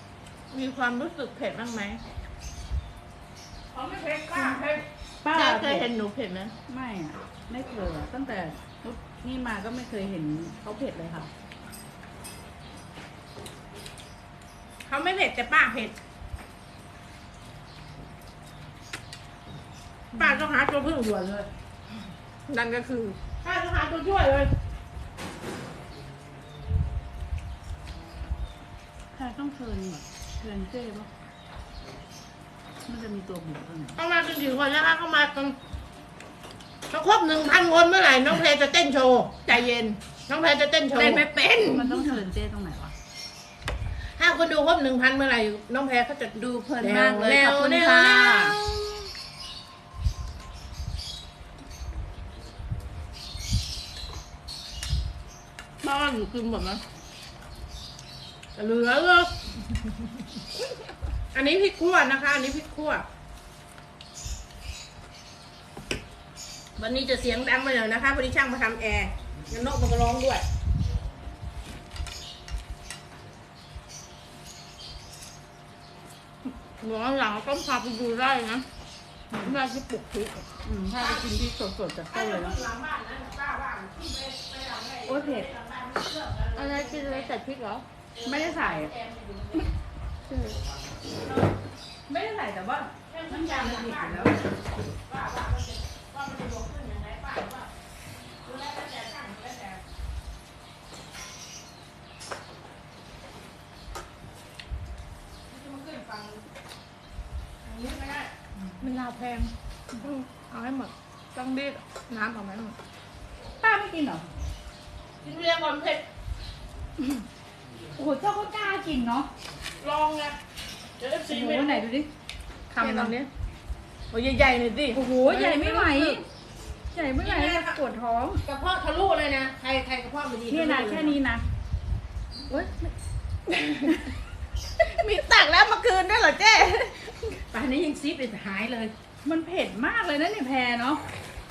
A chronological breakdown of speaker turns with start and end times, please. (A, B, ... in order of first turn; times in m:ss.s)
0:00.5-0:02.0 A
0:03.7-0:04.5 B
0:04.1-0:04.5 A
0:04.3-0:04.6 C
0:05.2-0:05.9 C
0:05.3-0:06.5 A
0:06.7-0:11.3 C
0:14.9-0:15.9 B
0:20.1-0:21.5 B
0:22.5-0:24.5 B
0:22.7-0:23.1 A
0:29.1-0:31.1 C
0:32.9-0:34.0 C
0:34.0-0:35.5 B
0:36.9-0:39.4 B
0:39.4-0:40.0 A
0:40.3-0:41.2 B
0:40.9-0:42.0 A
0:41.6-0:42.9 C
0:44.2-0:49.1 B
0:46.3-0:48.6 A
0:55.8-0:56.8 A
0:58.6-0:59.3 B
1:01.3-1:03.0 B
1:06.8-1:10.4 B
1:16.8-1:18.6 A
1:19.4-1:20.5 A
1:20.6-1:22.6 C
1:21.0-1:21.2 B
1:22.1-1:27.3 B
1:25.0-1:25.5 C
1:26.6-1:27.8 A
1:28.1-1:29.6 B
1:28.2-1:28.9 C
1:30.3-1:30.6 A
1:32.1-1:34.4 C
1:33.1-1:34.5 B
1:35.0-1:37.7 B
1:38.4-1:39.8 B
1:45.5-1:46.4 B
1:47.6-1:48.3 B
1:48.8-1:52.8 A
1:53.6-1:54.3 C
1:55.2-1:56.0 B
1:58.0-1:59.3 C
1:59.8-2:00.4 B
2:01.0-2:01.8 B
2:01.3-2:02.1 C
2:02.7-2:03.3 A
2:02.8-2:03.1 C
2:04.1-2:05.0 A
2:04.9-2:06.2 C
2:05.3-2:06.2 B
2:06.9-2:08.4 C
2:07.2-2:07.8 B
2:08.4-2:11.1 B
2:10.5-2:11.4 C
2:12.5-2:12.9 C
2:13.5-2:14.0 A
2:14.8-2:17.4 A
2:17.5-2:18.9 B
2:19.2-2:21.0 C